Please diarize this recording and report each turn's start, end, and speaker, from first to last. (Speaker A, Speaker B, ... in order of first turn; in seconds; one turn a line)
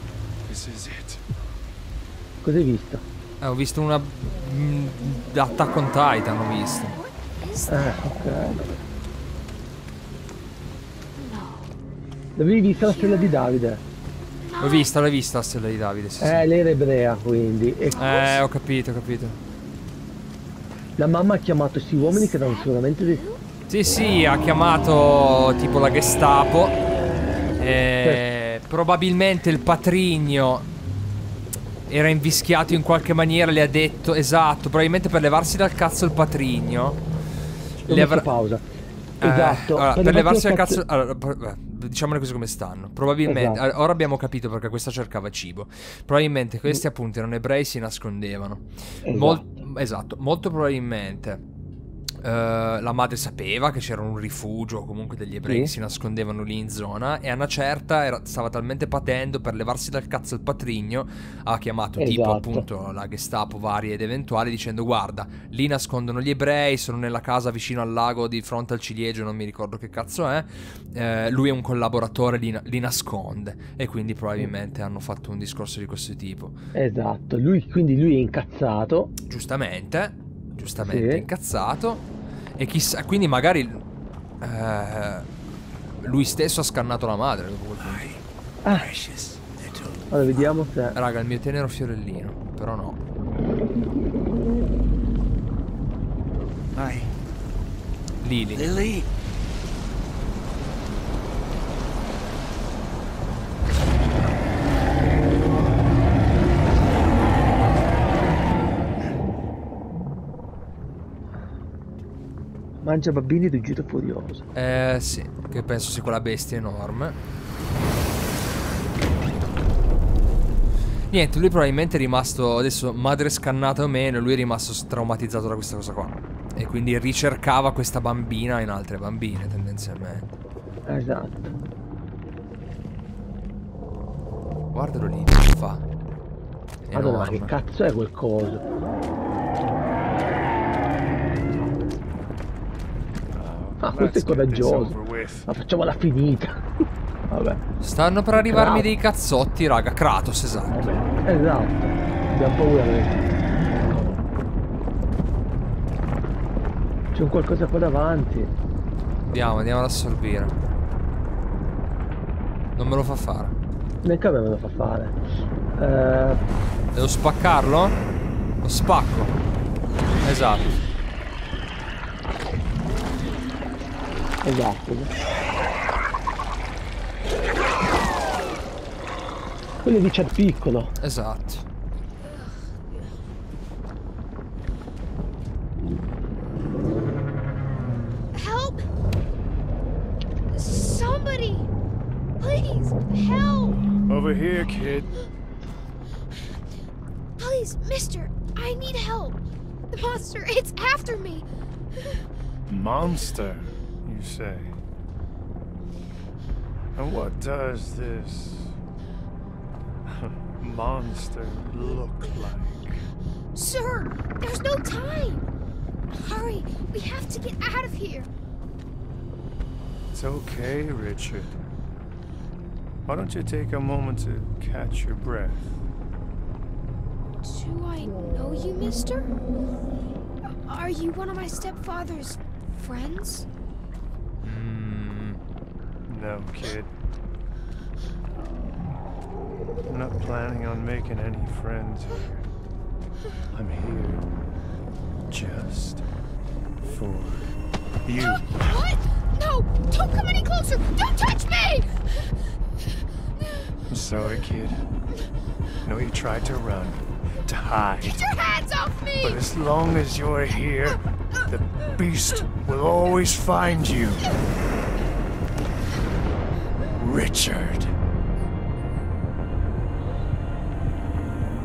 Speaker A: 0.5-1.2
Speaker B: 2.4-3.0
Speaker C: 3.4-7.0
Speaker D: 6.9-8.1
Speaker B: 7.7-8.7
Speaker D: 11.2-11.7
Speaker B: 12.4-13.8
Speaker D: 12.8-13.4
Speaker D: 14.4-14.9
Speaker C: 14.6-16.5
Speaker B: 16.2-18.1
Speaker D: 17.9-18.4
Speaker C: 18.0-19.4
Speaker B: 21.0-23.2
Speaker D: 22.1-23.4
Speaker C: 23.7-26.8
Speaker C: 27.6-30.7
Speaker C: 31.9-37.0
Speaker C: 37.9-38.3
Speaker B: 37.9-38.7
Speaker B: 39.2-40.8
Speaker C: 39.2-51.4
Speaker B: 43.2-43.6
Speaker B: 49.0-49.5
Speaker C: 52.2-76.6
Speaker B: 55.5-55.7
Speaker B: 62.0-62.7
Speaker B: 76.8-79.1
Speaker C: 79.3-83.8
Speaker B: 80.8-81.3
Speaker C: 84.4-85.3
Speaker C: 86.0-88.2
Speaker E: 87.8-90.0
Speaker B: 88.6-88.9
Speaker B: 90.1-91.0
Speaker C: 91.0-93.0
Speaker E: 96.8-97.1
Speaker C: 98.2-98.7
Speaker E: 98.5-99.1
Speaker B: 112.8-114.5
Speaker C: 114.5-117.2
Speaker C: 121.1-130.4
Speaker B: 130.9-131.5
Speaker C: 134.7-135.8
Speaker C: 136.8-137.5
Speaker B: 136.9-138.7
Speaker A: 143.3-145.5
Speaker B: 143.8-146.6
Speaker B: 147.3-147.6
Speaker C: 147.8-151.0
Speaker B: 148.3-148.9
Speaker B: 150.7-153.3
Speaker B: 157.1-158.5
Speaker C: 159.3-160.6
Speaker C: 162.8-163.6
Speaker B: 164.0-165.2
Speaker B: 165.8-166.4
Speaker C: 166.9-168.0
Speaker C: 168.6-169.4
Speaker C: 170.2-170.7
Speaker B: 174.4-175.1
Speaker B: 179.8-180.9
Speaker C: 181.0-181.7
Speaker D: 182.3-183.0
Speaker D: 188.3-188.9
Speaker D: 190.5-191.7
Speaker D: 192.4-193.8
Speaker A: 194.1-195.1
Speaker D: 197.4-199.4
Speaker D: 199.9-201.5
Speaker A: 202.7-204.8
Speaker A: 207.0-208.8
Speaker A: 210.1-213.1
Speaker D: 213.6-215.5
Speaker D: 216.1-218.3
Speaker A: 220.1-221.6
Speaker A: 223.1-225.7
Speaker D: 227.4-229.3
Speaker D: 230.7-233.5
Speaker C: 234.4-235.4
Speaker A: 236.1-236.9
Speaker A: 239.9-242.2
Speaker A: 243.5-244.3
Speaker A: 245.3-246.0
Speaker A: 246.8-247.5
Speaker A: 248.1-248.5
Speaker D: 248.7-251.9
Speaker A: 253.9-254.8
Speaker A: 255.8-258.3
Speaker D: 258.0-259.4
Speaker A: 259.2-264.2
Speaker A: 267.0-267.9